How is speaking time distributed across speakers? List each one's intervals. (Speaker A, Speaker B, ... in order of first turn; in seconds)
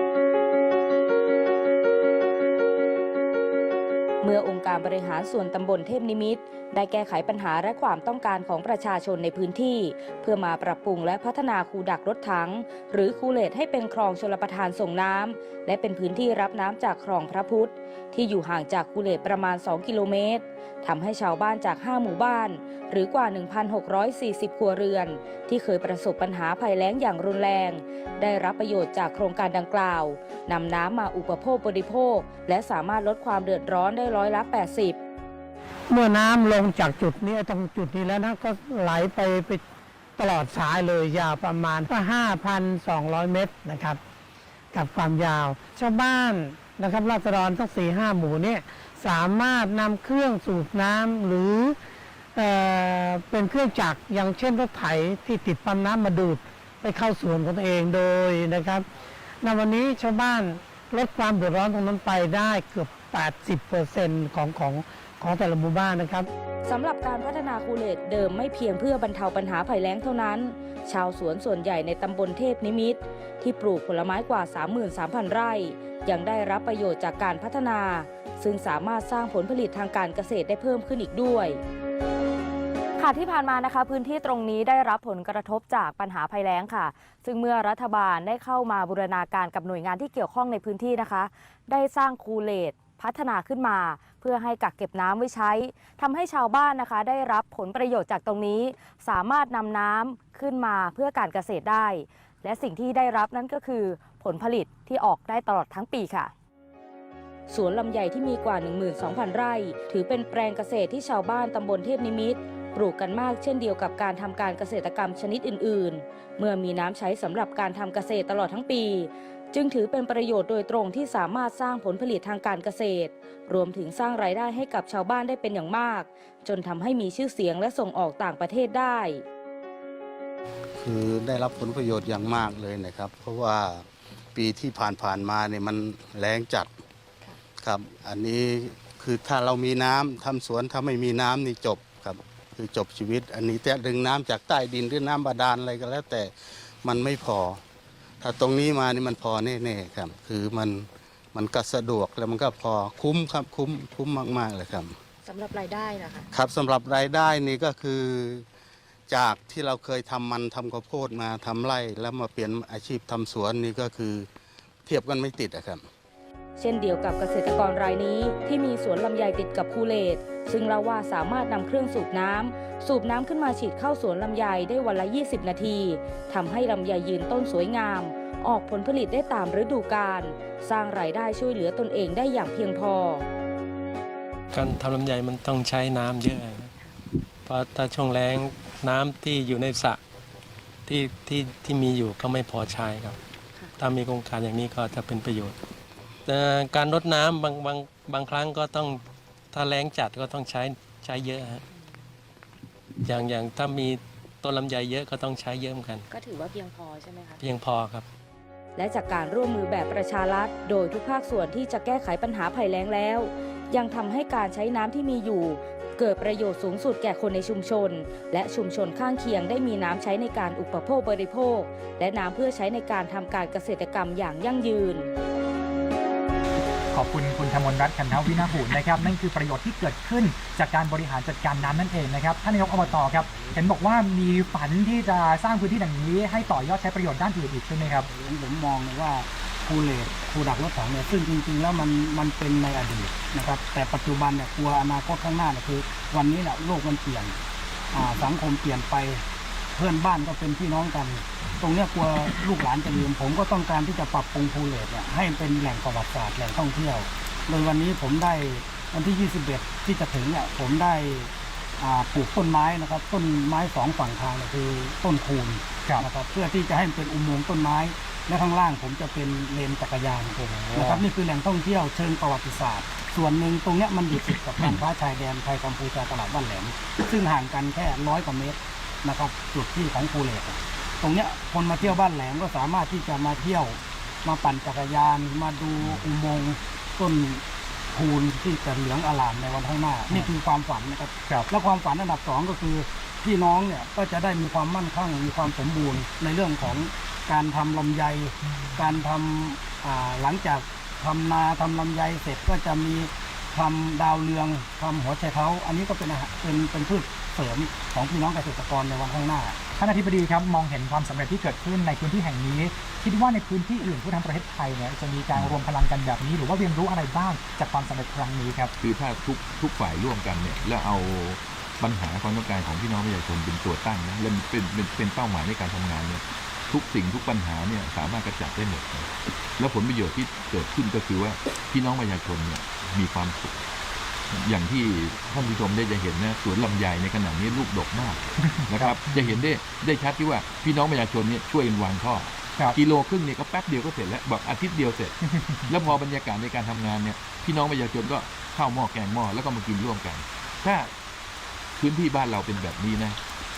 Speaker A: 4.2-35.0, 66.7-81.6, 107.5-129.2, 166.6-183.2, 208.8-225.1
Speaker B: 35.9-39.6, 40.2-44.0, 44.7-51.8, 52.4-58.9, 59.4-66.3
Speaker C: 83.0-106.3, 155.3-156.2, 206.1-207.3
Speaker D: 130.8-136.7, 137.6-147.6, 148.2-155.0, 156.3-158.4, 159.1-164.3, 164.9-165.8
Speaker E: 184.5-186.8, 187.5-190.0, 190.9-193.2, 193.7-195.6, 196.3-201.6, 203.0-206.1, 207.4-208.1
Speaker F: 226.9-238.1, 270.5-271.0, 298.5-298.8, 309.8-318.7, 338.4-339.1, 345.2-345.7
Speaker G: 238.2-247.4, 247.9-249.2, 249.8-287.4, 287.9-309.6
Speaker H: 318.8-333.6, 334.3-350.9, 351.8-353.2